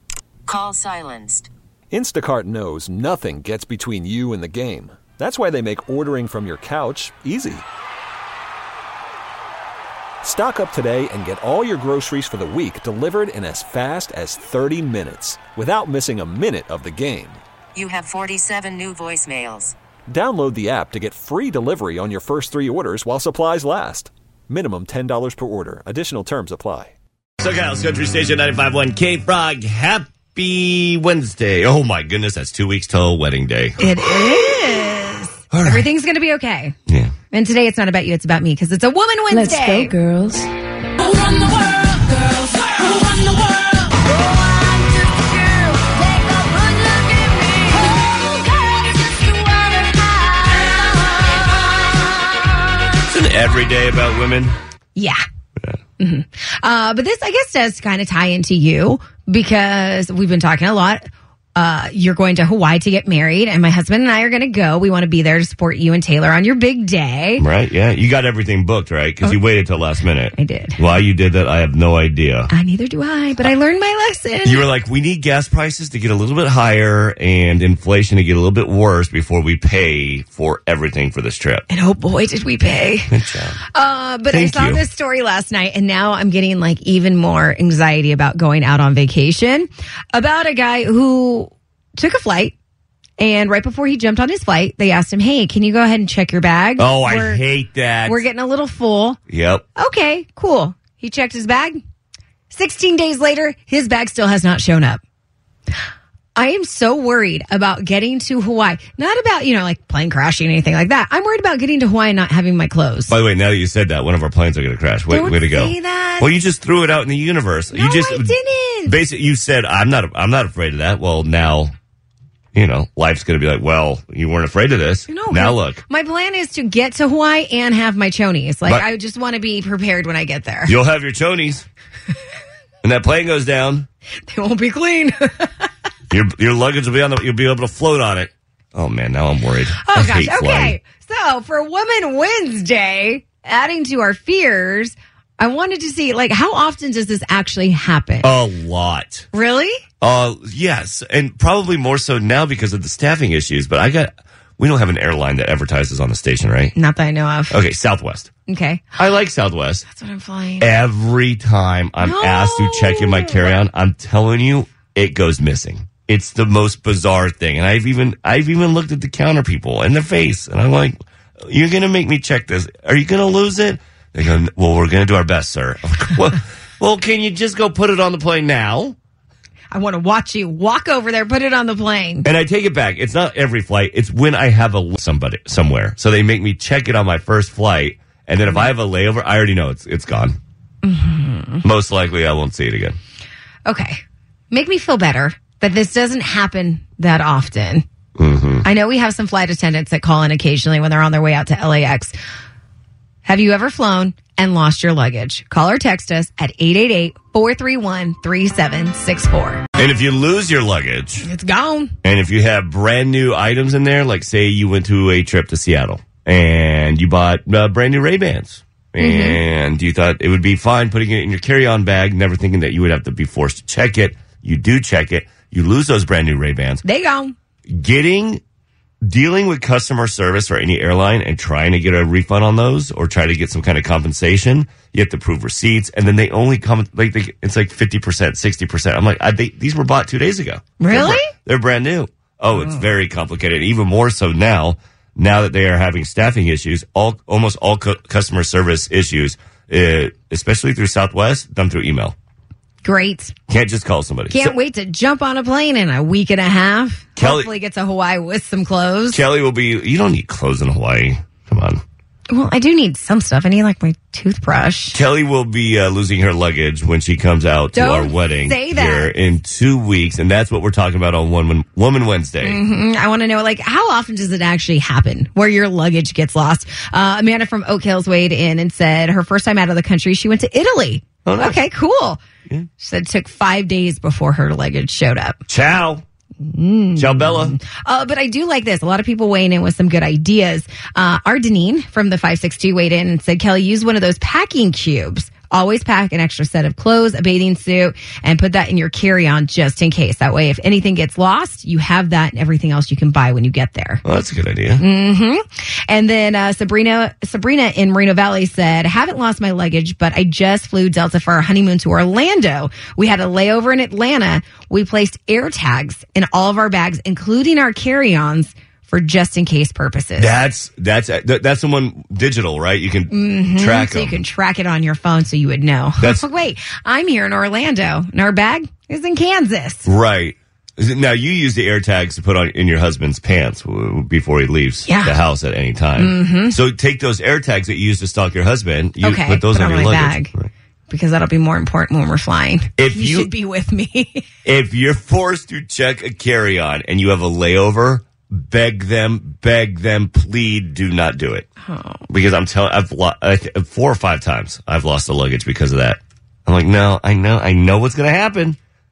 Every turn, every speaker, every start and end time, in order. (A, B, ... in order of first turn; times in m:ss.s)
0:00.5-0:01.5 A
0:01.9-0:07.7 B
0:10.2-0:17.4 B
0:17.8-0:19.8 A
0:20.1-0:26.9 B
0:27.4-0:33.8 C
0:33.8-0:36.7 D
0:35.5-0:35.8 C
0:36.9-0:37.1 C
0:37.3-0:40.0 D
0:39.3-0:45.0 E
0:41.5-0:42.0 A
0:42.7-0:52.2 A
0:49.1-0:49.7 E
0:53.1-0:54.6 C
0:55.0-0:55.2 D
0:56.0-1:01.0 D
1:01.6-1:07.4 D
1:07.4-1:12.5 C
1:10.4-1:10.8 D
1:12.5-1:14.6 D
1:14.4-1:21.6 C
1:21.7-1:23.1 D
1:23.1-1:23.6 C
1:23.7-1:32.6 D
1:24.3-1:24.8 C
1:33.2-1:37.4 D
1:36.8-1:38.2 C
1:38.1-1:39.2 D
1:39.3-1:39.6 C
1:39.8-1:41.8 D
1:42.5-1:45.0 D
1:46.4-1:53.2 D
1:53.1-1:58.3 C
1:55.1-1:56.3 D
1:57.7-1:59.0 D
1:58.9-2:01.7 C
2:02.5-2:05.8 C
2:05.1-2:10.8 D
2:10.7-2:11.7 C
2:12.8-2:13.9 C
2:14.3-2:15.7 D
2:16.1-2:20.8 C
2:19.8-2:28.3 D
2:28.2-2:29.3 C
2:29.3-2:29.8 D
2:30.0-2:36.8 C
2:36.8-2:37.6 D
2:37.5-2:38.3 C
2:38.5-2:38.9 D
2:39.0-2:39.9 C
2:39.9-2:40.7 D
2:40.6-2:59.0 C
2:42.0-2:43.6 D
2:59.7-3:02.3 D
3:02.2-3:10.4 C
3:10.8-3:11.6 D
3:11.6-3:13.0 C
3:13.7-3:14.0 D
3:14.5-3:17.8 D
3:18.2-3:18.7 C
3:18.6-3:22.2 D
3:23.2-3:29.6 D
3:29.8-3:31.3 C
3:31.2-3:31.9 D
3:32.0-3:46.8 C
3:39.0-3:39.4 D
3:46.8-3:47.4 D
3:47.7-3:48.4 C
3:49.0-4:12.2 C
4:00.8-4:01.3 D
4:02.5-4:02.8 D
4:12.8-4:13.3 D
4:13.5-4:14.5 C
4:14.3-4:19.2 D
4:17.2-4:17.5 C
4:19.1-4:21.8 C
4:22.3-4:25.0 D
4:24.9-4:32.6 C
4:27.7-4:29.1 D
4:32.4-4:42.2 D
4:41.3-4:41.6 C
4:42.8-4:45.4 D
4:45.5-4:46.0 C
4:46.4-5:04.0 D
4:47.0-4:47.6 C
5:04.0-5:04.8 C
5:04.8-5:20.4 D
5:20.2-5:24.2 C
5:23.1-5:29.9 D
5:29.9-5:40.5 C
5:34.9-5:35.2 D
5:36.0-5:36.6 D
5:39.0-5:40.3 D
5:40.9-5:44.2 D
5:42.8-5:43.3 C
5:44.4-5:51.5 C
5:51.6-5:52.0 D
5:52.1-5:58.6 C